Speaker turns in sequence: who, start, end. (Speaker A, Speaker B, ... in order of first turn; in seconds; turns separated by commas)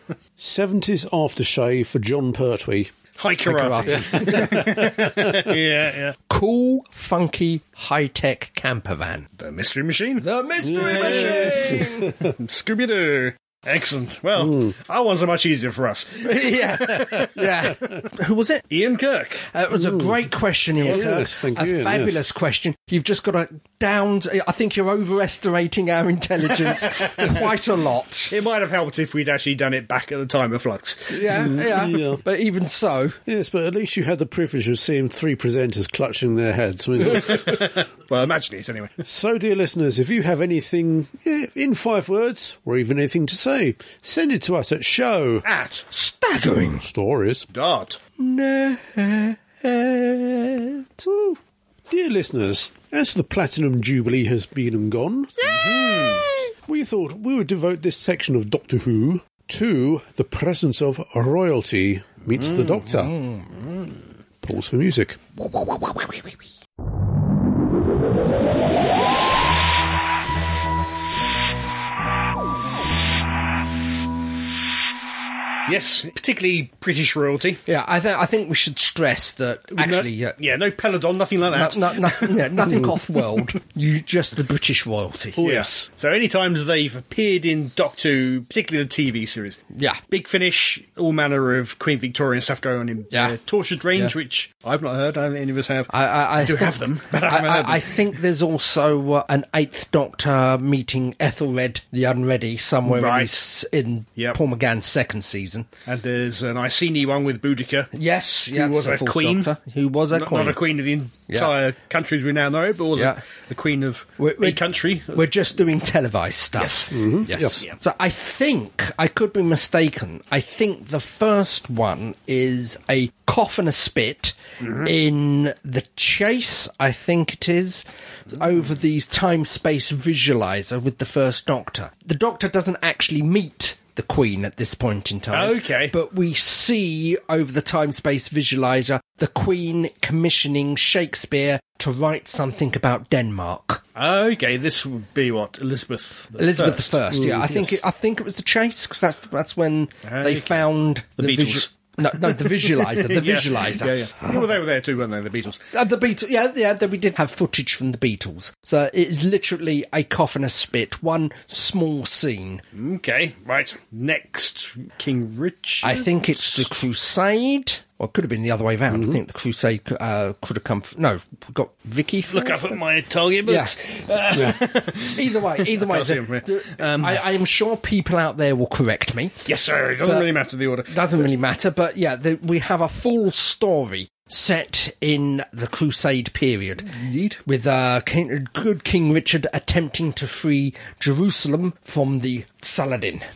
Speaker A: 0.4-2.9, Speaker B: 3.2-6.2, Speaker C: 3.5-4.8, Speaker A: 4.2-5.5, Speaker C: 6.3-9.3, Speaker B: 9.4-17.4, Speaker C: 10.2-12.1, Speaker A: 10.6-12.3, Speaker A: 14.4-14.7, Speaker C: 16.2-18.6, Speaker B: 18.7-19.5, Speaker C: 19.5-28.4, Speaker A: 19.7-22.2, Speaker B: 26.6-27.5, Speaker B: 28.3-31.5, Speaker C: 31.1-33.2, Speaker A: 31.3-32.2, Speaker A: 33.3-37.7, Speaker B: 37.1-39.0, Speaker A: 39.0-45.5, Speaker B: 45.4-45.9, Speaker C: 45.9-46.9, Speaker A: 46.8-47.5, Speaker B: 47.5-48.0, Speaker C: 48.2-51.4, Speaker A: 51.9-55.4, Speaker C: 55.4-56.5, Speaker B: 55.5-56.2, Speaker A: 56.7-63.2, Speaker B: 62.4-63.0, Speaker A: 64.4-65.2, Speaker B: 75.7-77.6, Speaker C: 77.7-80.4, Speaker B: 79.8-82.5, Speaker C: 81.5-85.5, Speaker A: 85.4-85.9, Speaker B: 85.4-98.0, Speaker C: 89.7-90.0, Speaker C: 93.1-93.4, Speaker C: 95.9-105.7, Speaker B: 102.8-103.4, Speaker B: 105.9-107.9, Speaker C: 107.9-110.6, Speaker B: 108.5-109.5, Speaker B: 110.1-115.3, Speaker C: 114.2-143.8, Speaker B: 116.6-116.9, Speaker A: 116.9-117.6, Speaker B: 124.6-124.9, Speaker B: 135.3-135.9, Speaker B: 144.0-147.0, Speaker C: 146.4-154.5, Speaker A: 147.1-147.8, Speaker B: 150.1-150.7, Speaker B: 151.2-155.7, Speaker C: 155.7-162.6, Speaker B: 162.7-166.7, Speaker C: 165.8-172.8, Speaker A: 168.9-169.2, Speaker B: 172.3-177.2, Speaker C: 173.4-173.7, Speaker A: 174.3-174.6, Speaker C: 175.2-179.4, Speaker B: 179.4-181.2, Speaker C: 180.0-180.3, Speaker C: 180.9-186.9, Speaker B: 186.9-187.4, Speaker C: 187.5-193.2